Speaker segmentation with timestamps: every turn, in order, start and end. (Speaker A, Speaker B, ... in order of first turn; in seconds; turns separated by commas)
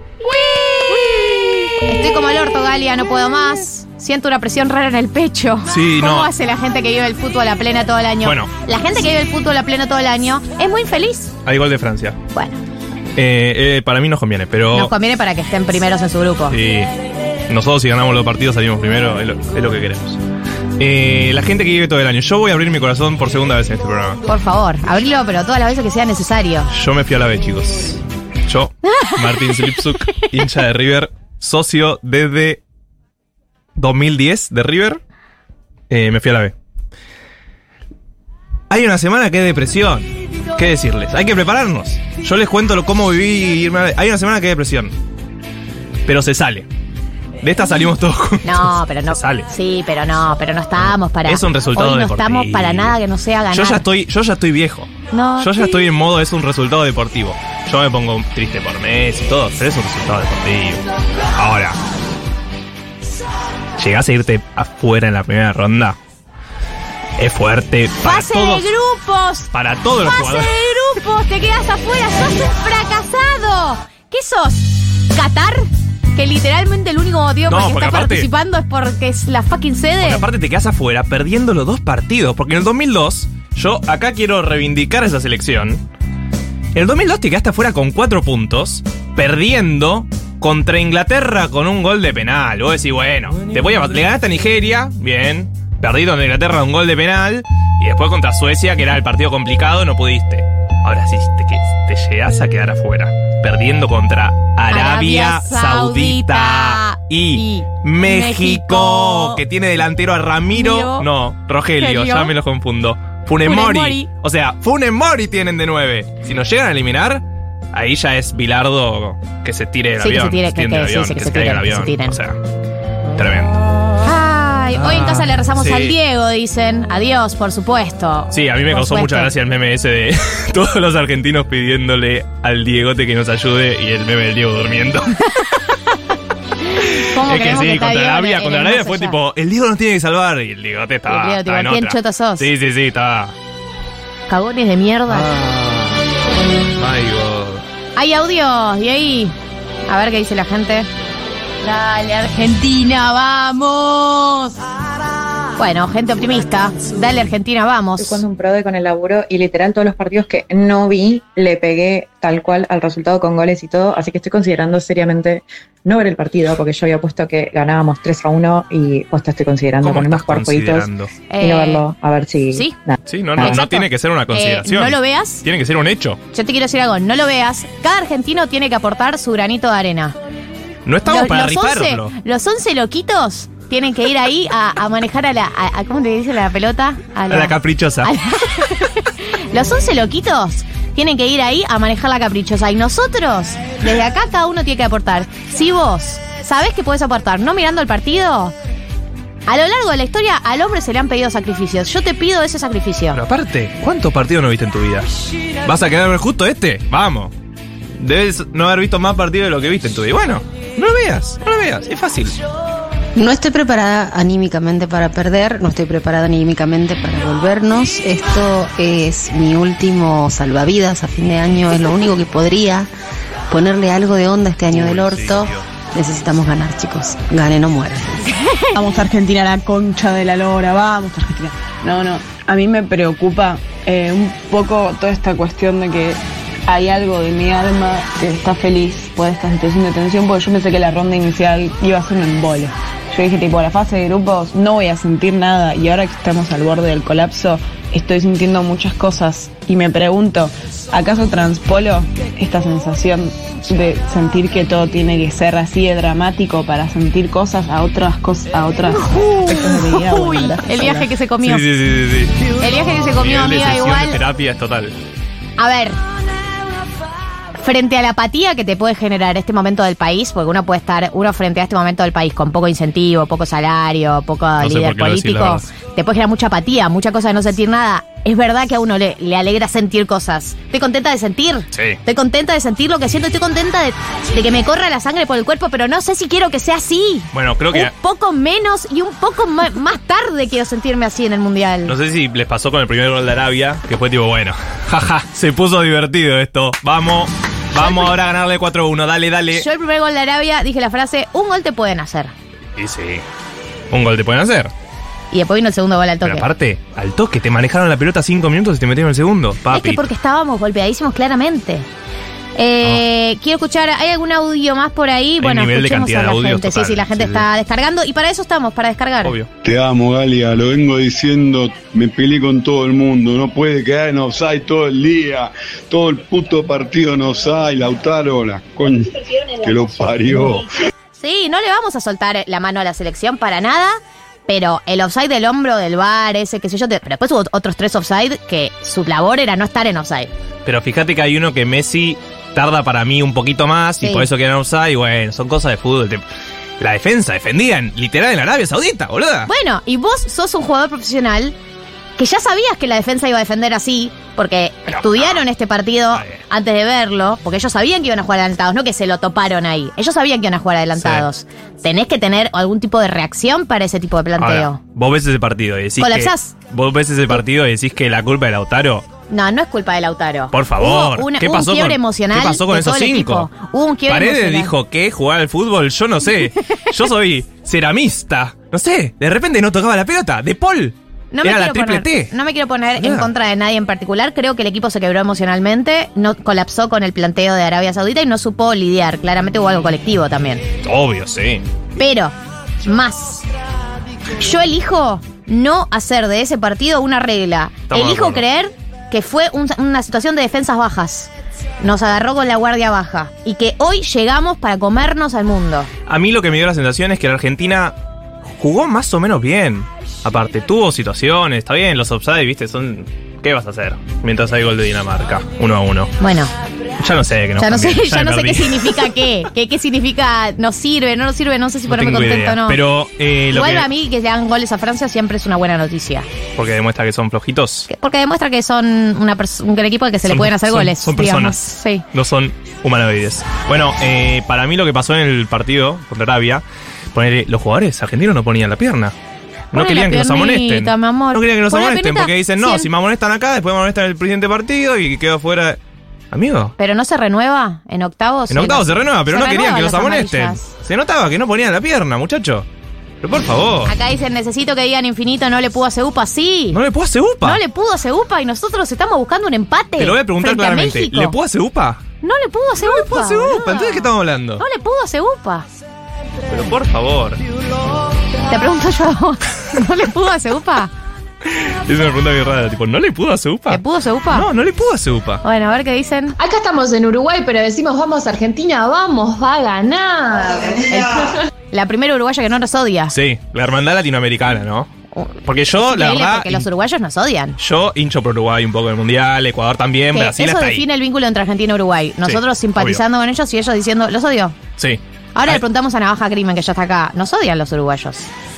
Speaker A: 0.4-11.3, Speaker B: 5.7-6.3, Speaker B: 8.2-8.5, Speaker B: 11.4-12.2, Speaker A: 12.3-12.6, Speaker B: 13.2-14.9, Speaker A: 14.7-16.6, Speaker B: 16.5-16.9, Speaker B: 17.5-20.2, Speaker B: 20.8-24.2, Speaker A: 24.3-26.7, Speaker B: 26.7-32.6, Speaker A: 28.9-30.3, Speaker B: 33.8-35.0, Speaker B: 35.9-36.5, Speaker B: 38.7-44.9, Speaker B: 46.0-46.6, Speaker B: 47.4-49.5, Speaker A: 48.4-53.8, Speaker B: 51.2-53.0, Speaker B: 53.5-60.8, Speaker A: 55.1-55.9, Speaker B: 61.3-61.8, Speaker B: 63.8-66.0, Speaker B: 67.2-68.7, Speaker A: 68.0-69.5, Speaker B: 69.5-70.8, Speaker A: 70.0-80.2, Speaker B: 77.5-78.3, Speaker B: 80.0-85.8, Speaker B: 86.7-122.4, Speaker A: 104.7-109.4, Speaker A: 110.5-111.1, Speaker A: 111.8-112.3, Speaker A: 113.4-114.1, Speaker A: 120.0-122.2, Speaker B: 123.1-123.6, Speaker A: 124.0-129.3, Speaker B: 124.7-126.0, Speaker B: 128.3-135.4, Speaker A: 136.7-139.2, Speaker B: 136.8-143.3, Speaker A: 141.1-142.5, Speaker A: 144.3-145.3, Speaker B: 145.1-146.0, Speaker B: 146.8-147.6, Speaker A: 147.9-149.3, Speaker A: 149.9-150.9, Speaker A: 151.6-154.6, Speaker A: 155.6-158.2, Speaker C: 158.0-170.9, Speaker B: 169.8-171.1, Speaker A: 171.3-171.8, Speaker C: 171.4-173.6, Speaker B: 173.1-176.2, Speaker A: 173.4-175.4, Speaker A: 176.3-180.2, Speaker B: 180.8-182.1, Speaker A: 181.1-198.5, Speaker B: 187.3-188.1, Speaker A: 199.5-203.2, Speaker B: 203.1-205.1, Speaker B: 205.6-207.3, Speaker B: 208.0-212.4, Speaker D: 213.2-222.9, Speaker D: 223.5-228.3, Speaker B: 224.7-225.6, Speaker A: 228.4-228.7, Speaker E: 228.7-261.1, Speaker A: 259.0-261.6, Speaker B: 261.4-264.9, Speaker A: 262.6-264.2, Speaker A: 265.6-266.0, Speaker A: 267.6-291.9, Speaker B: 274.6-275.6, Speaker B: 281.7-282.0, Speaker B: 287.3-287.9, Speaker B: 291.9-299.6, Speaker A: 297.7-298.2, Speaker A: 299.5-302.3, Speaker B: 302.8-303.2, Speaker B: 303.9-304.7, Speaker A: 305.3-306.5, Speaker B: 306.2-310.1, Speaker A: 309.7-311.9, Speaker A: 312.6-319.3, Speaker B: 315.4-317.4, Speaker B: 319.2-319.5, Speaker F: 319.6-330.8, Speaker A: 331.2-340.3, Speaker B: 340.6-346.2, Speaker A: 344.0-344.3, Speaker B: 346.8-349.5, Speaker A: 349.5-351.5, Speaker A: 352.2-364.8, Speaker B: 354.9-355.4, Speaker B: 356.1-356.4, Speaker B: 361.0-361.3, Speaker B: 364.4-369.0, Speaker A: 366.0-366.5, Speaker A: 369.3-374.7, Speaker B: 370.5-373.5, Speaker B: 374.1-382.3, Speaker A: 381.3-390.6, Speaker B: 383.0-383.3, Speaker B: 390.8-391.6, Speaker A: 392.0-393.4, Speaker A: 394.4-401.3, Speaker B: 397.9-398.4, Speaker A: 401.8-405.9, Speaker B: 406.1-407.9, Speaker B: 408.5-416.1, Speaker A: 416.2-416.5, Speaker B: 417.0-419.1, Speaker A: 417.6-422.8, Speaker B: 421.9-423.9, Speaker A: 423.5-426.3, Speaker B: 426.6-427.9, Speaker A: 427.9-432.0, Speaker B: 430.2-439.1, Speaker A: 439.7-442.9, Speaker B: 439.7-445.8, Speaker B: 446.3-446.7, Speaker A: 446.8-450.6, Speaker B: 448.5-452.6, Speaker B: 453.2-453.9, Speaker A: 453.9-456.8, Speaker B: 456.7-457.6, Speaker A: 457.4-461.4, Speaker B: 460.0-462.0, Speaker A: 462.2-465.7, Speaker B: 462.8-464.6, Speaker B: 466.5-467.4, Speaker A: 468.5-470.9, Speaker B: 471.4-475.4, Speaker A: 473.7-474.5, Speaker A: 475.4-476.4, Speaker G: 476.4-480.9, Speaker A: 480.9-483.1, Speaker B: 483.1-484.9, Speaker A: 485.1-487.6, Speaker B: 485.4-486.7, Speaker B: 487.6-490.8, Speaker A: 490.1-494.6, Speaker B: 492.2-493.0, Speaker B: 494.8-495.6, Speaker A: 495.3-498.3